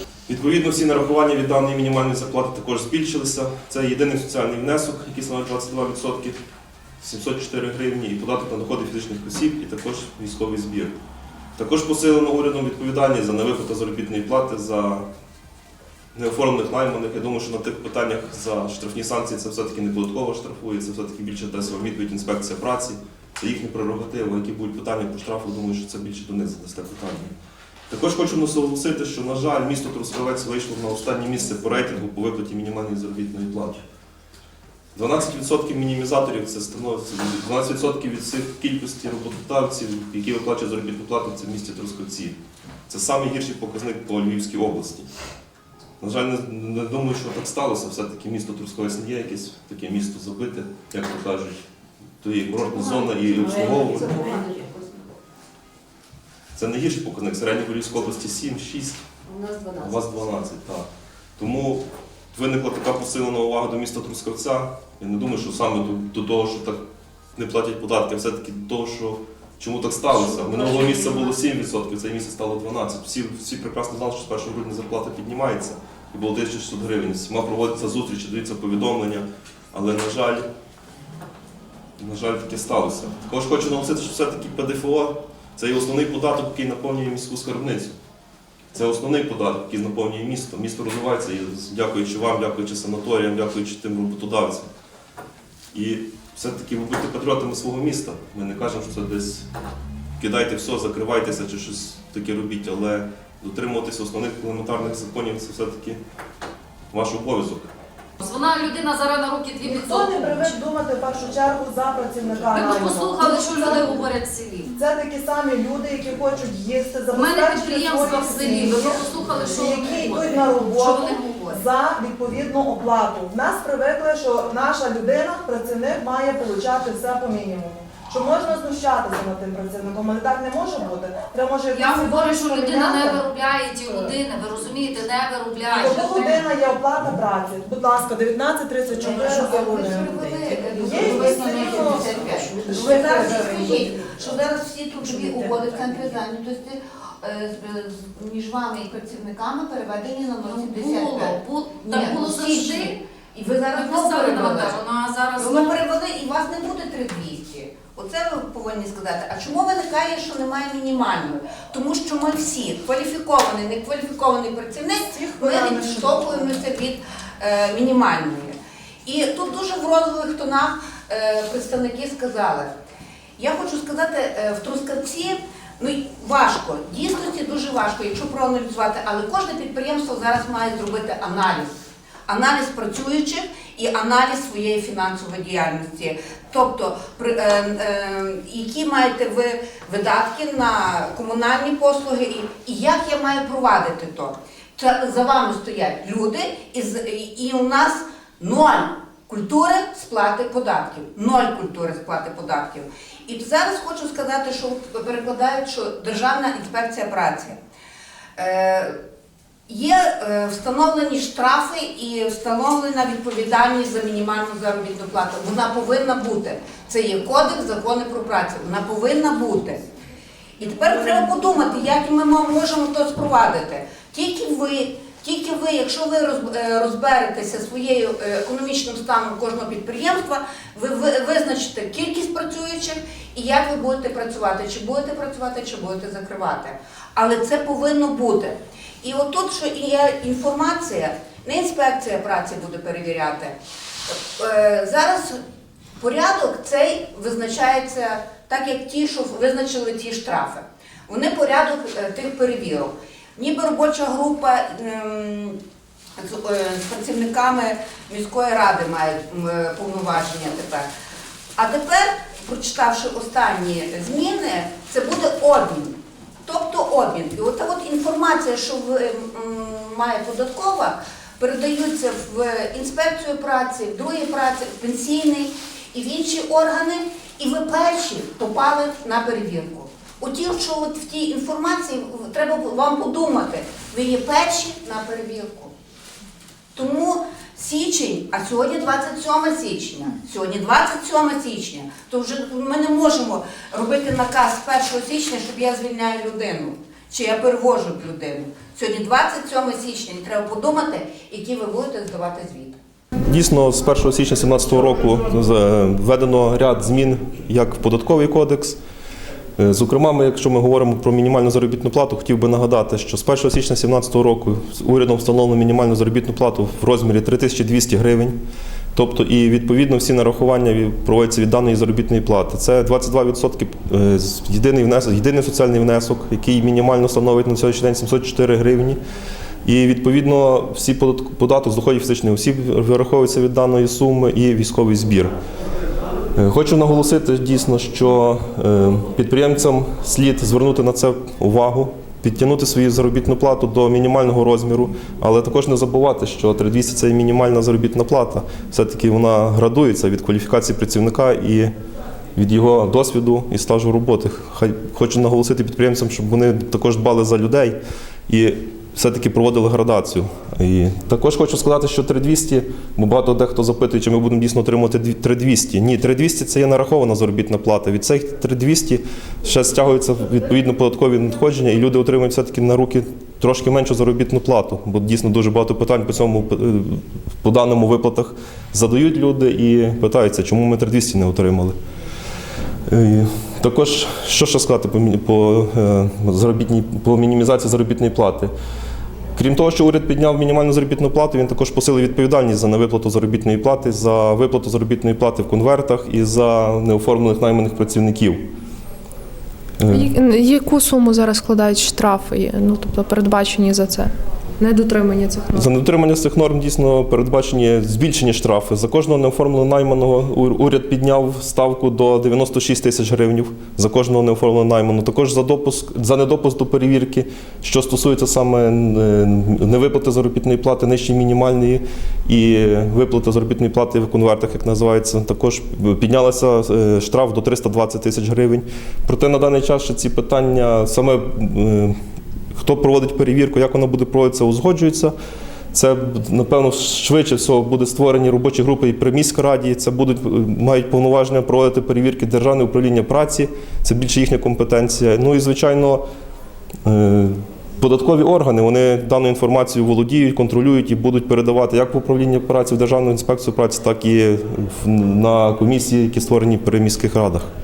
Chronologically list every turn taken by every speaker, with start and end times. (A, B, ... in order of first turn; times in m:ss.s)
0:00.3-0:06.4 A
0:07.0-0:11.0 A
0:11.6-0:15.0 A
0:16.2-0:27.3 A
0:27.9-0:33.8 A
0:35.0-0:42.4 A
0:42.9-0:45.1 A
0:46.0-0:51.6 A
0:52.2-0:54.3 A
0:53.5-0:54.7 B
0:56.6-0:59.0 A
0:59.3-0:59.8 B
0:59.8-1:06.8 A
1:07.4-1:20.5 A
1:22.0-1:28.0 A
1:28.7-1:34.7 A
1:35.7-1:39.5 A
1:40.2-1:46.0 A
1:46.9-1:47.7 A
1:48.2-1:50.6 C
1:49.6-1:54.1 D
1:52.5-1:54.8 C
1:54.8-2:13.2 D
1:57.1-2:01.6 C
2:11.7-2:16.5 C
2:15.7-2:24.2 D
2:19.0-2:34.8 B
2:20.6-2:23.7 C
2:25.2-2:25.9 D
2:30.4-2:32.9 C
2:33.7-2:35.8 C
2:35.4-2:52.7 B
2:45.1-2:46.6 D
2:53.4-3:01.7 B
3:02.3-3:27.6 B
3:28.4-3:29.0 B
3:29.7-3:39.9 B
3:40.6-4:03.5 B
4:04.1-4:05.4 B
4:06.0-4:15.6 B
4:16.2-4:20.9 B
4:21.6-4:45.7 B
4:46.8-5:02.8 B
5:03.2-5:08.8 A
5:09.6-5:18.4 A
5:19.0-5:29.0 A
5:29.6-5:35.4 A
5:36.4-5:51.7 A
5:52.4-5:57.8 A
5:58.3-6:21.8 A
6:22.9-6:28.5 A
6:29.4-6:38.4 A
6:39.8-6:40.1 A
6:39.9-6:45.7 E
6:45.5-7:12.0 A
7:12.6-7:15.2 A
7:15.7-7:26.0 A
7:26.8-7:37.5 A